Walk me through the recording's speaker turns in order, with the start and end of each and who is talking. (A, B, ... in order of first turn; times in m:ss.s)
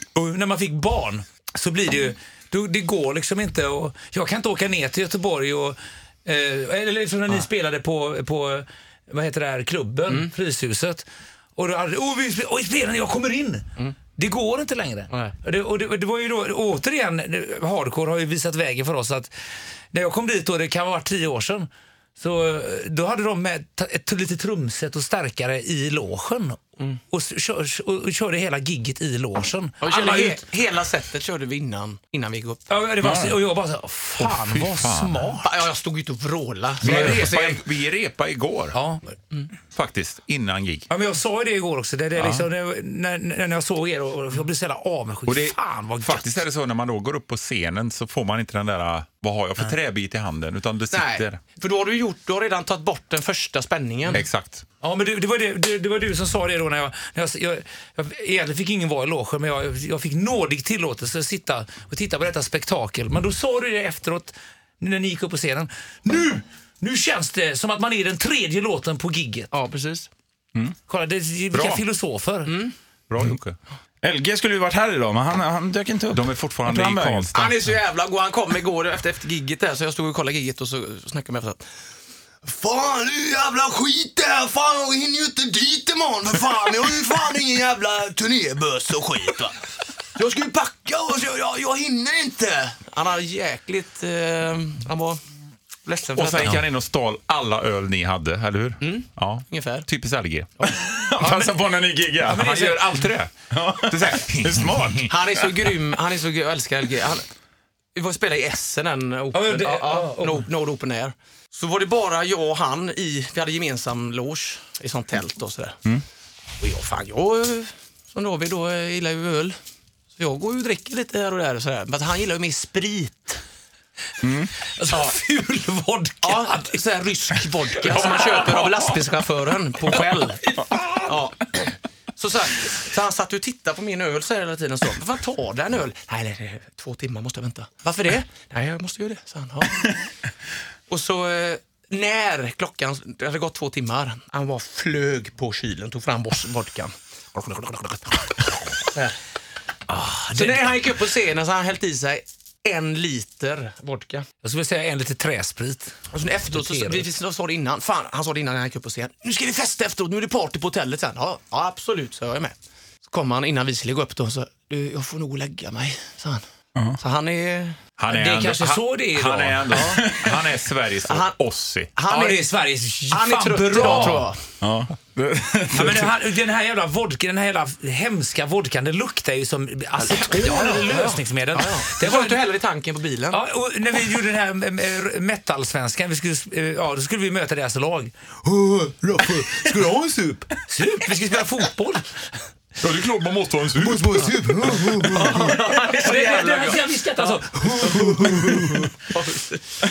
0:00.1-0:11.0 A
0:11.6-0:19.3 A
0:19.9-0:30.4 A
0:29.8-0:32.7 B
0:32.7-0:35.5 A
0:33.0-0:33.4 C
0:34.2-0:35.3 D
0:35.4-0:37.6 B
0:36.8-0:38.8 D
0:36.8-0:37.3 A
0:38.7-0:39.1 A
0:39.7-0:40.9 D
0:40.9-0:46.4 A
0:42.2-0:42.4 D
0:45.2-0:51.4 D
0:50.9-0:54.2 B
0:54.1-0:54.6 D
0:54.8-1:09.5 A
1:09.5-1:10.1 B
1:10.9-1:12.6 A
1:11.5-1:11.8 D
1:12.4-1:12.7 B
1:13.1-1:13.6 D
1:14.0-1:17.3 C
1:16.1-1:17.6 D
1:17.3-1:21.6 B
1:22.4-1:29.5 B
1:30.1-1:35.2 B
1:35.8-1:36.6 B
1:36.1-1:40.5 D
1:38.8-1:39.8 B
1:40.6-1:41.5 B
1:40.7-1:42.5 C
1:42.2-1:43.0 A
1:42.3-1:43.3 D
1:43.5-1:45.3 C
1:43.8-1:45.0 D
1:45.1-1:47.2 B
1:48.0-1:55.8 B
1:49.3-1:50.5 A
1:56.6-1:59.6 B
2:00.2-2:03.4 B
2:04.2-2:04.5 C
2:04.6-2:06.8 A
2:04.9-2:05.1 B
2:06.2-2:10.4 B
2:07.8-2:08.8 A
2:10.4-2:11.1 A
2:11.1-2:20.0 B
2:20.9-2:29.1 B
2:29.9-2:30.7 A
2:30.3-2:34.2 B
2:34.4-2:35.9 A
2:36.1-2:42.6 B
2:36.5-2:37.1 A
2:43.1-2:46.4 B
2:47.0-2:47.8 B
2:48.0-2:51.9 D
2:48.1-2:50.4 A
2:49.7-2:50.0 B
2:49.9-2:50.2 C
2:51.0-2:51.4 B
2:51.9-2:52.5 B
2:52.1-2:54.2 A
2:53.1-2:54.4 B
2:53.8-2:56.1 C
2:55.7-3:02.4 A
3:00.0-3:03.4 B
3:03.3-3:12.0 A
3:12.8-3:14.3 D
3:14.1-3:17.4 B
3:14.3-3:15.3 C
3:15.2-3:18.9 A
3:18.0-3:19.6 B